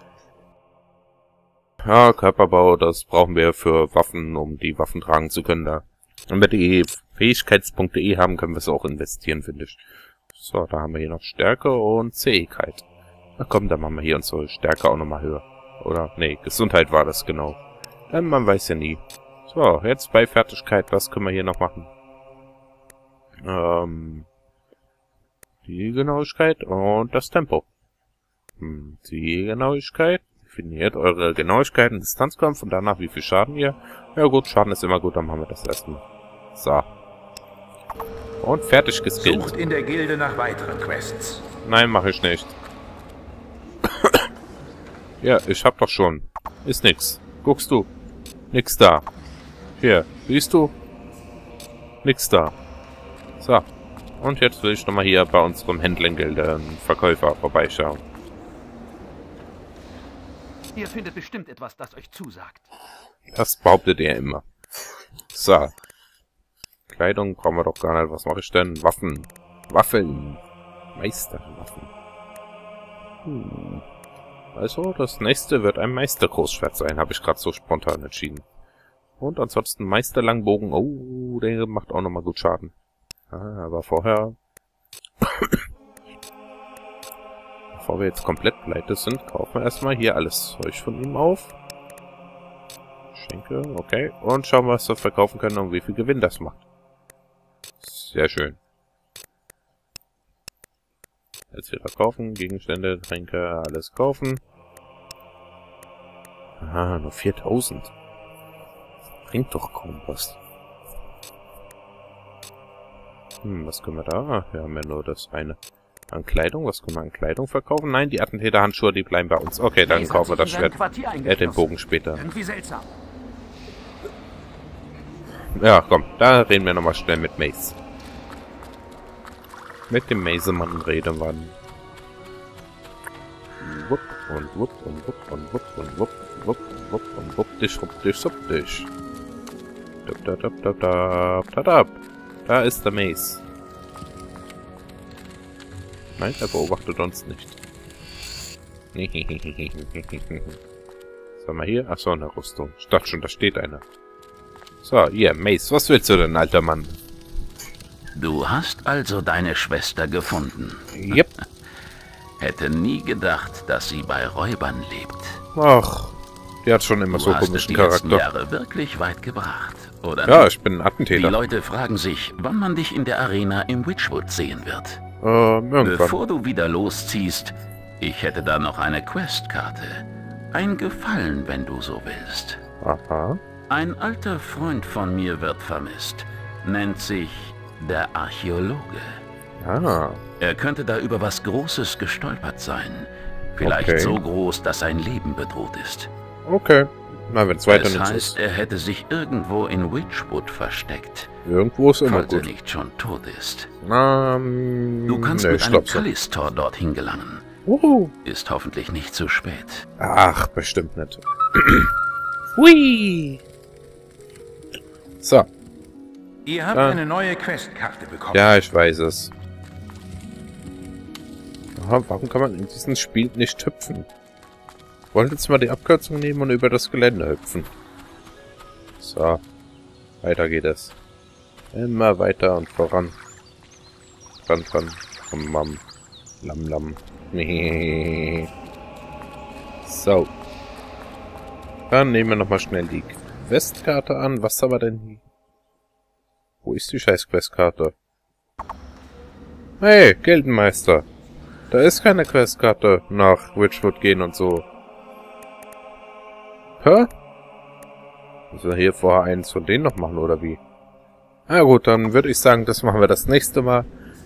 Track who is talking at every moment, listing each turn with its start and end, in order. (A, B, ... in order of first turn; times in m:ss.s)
0:01.9-0:09.8 A
0:10.3-0:12.8 A
0:13.4-0:17.6 A
0:18.1-0:21.9 A
0:23.4-0:24.3 A
0:25.6-0:27.6 A
0:28.6-0:36.0 A
0:36.5-0:36.8 A
0:38.4-0:39.5 A
0:39.2-0:41.4 B
0:41.6-0:42.5 A
0:45.2-0:47.9 A
0:48.5-0:49.0 A
0:49.8-0:50.7 A
0:52.0-0:52.5 A
0:53.4-0:53.7 A
0:54.2-0:58.0 A
1:00.8-1:02.5 C
1:03.3-1:04.4 A
1:05.3-1:05.7 A
1:06.9-1:10.4 A
1:10.9-1:11.9 A
1:13.2-1:13.8 A
1:14.5-1:18.4 A
1:19.2-1:22.7 A
1:23.3-1:24.3 A
1:25.2-1:25.6 A
1:27.7-1:31.5 A
1:33.1-1:36.6 A
1:37.8-1:38.6 A
1:41.5-1:44.4 A
1:46.6-1:47.9 A
1:49.3-1:50.4 A
1:53.4-1:55.6 A
1:56.1-2:02.2 A
1:59.9-2:02.7 C
2:05.6-2:07.7 A
2:09.9-2:11.6 A
2:13.6-2:18.9 A
2:20.0-2:23.4 A
2:26.2-2:27.5 A
2:28.9-2:30.6 A
2:31.4-2:33.8 A
2:34.8-2:37.0 A
2:38.2-2:41.3 D
2:40.9-2:41.3 A
2:42.4-2:45.4 D
2:45.5-2:48.2 A
2:47.1-2:50.5 D
2:50.2-2:51.4 A
2:51.1-2:55.0 D
2:55.2-2:56.2 A
2:55.8-3:02.6 D
3:02.8-3:03.4 A
3:03.7-3:09.2 D
3:09.6-3:10.2 A
3:10.4-3:16.1 D
3:13.6-3:14.2 A
3:16.4-3:18.4 A
3:17.7-3:21.3 D
3:21.4-3:22.5 A
3:22.0-3:23.7 D
3:23.8-3:26.1 A
3:25.1-3:27.4 D
3:27.7-3:28.1 A
3:28.2-3:29.8 D
3:30.0-3:31.9 A
3:32.6-3:33.4 A
3:35.2-3:35.5 A
3:36.4-3:38.5 B
3:36.7-3:37.0 A
3:38.3-3:39.3 A
3:41.8-3:44.1 A
3:45.1-3:47.7 A
3:49.0-3:49.4 A
3:50.2-3:50.9 A
3:51.7-3:53.2 A
3:54.4-3:55.8 A
3:56.4-3:58.5 A
3:59.8-4:00.3 A
4:01.9-4:05.2 A
4:06.6-4:07.9 A
4:09.8-4:11.0 A
4:11.7-4:14.6 A
4:16.8-4:17.1 A
4:18.5-4:20.6 A
4:21.5-4:23.9 A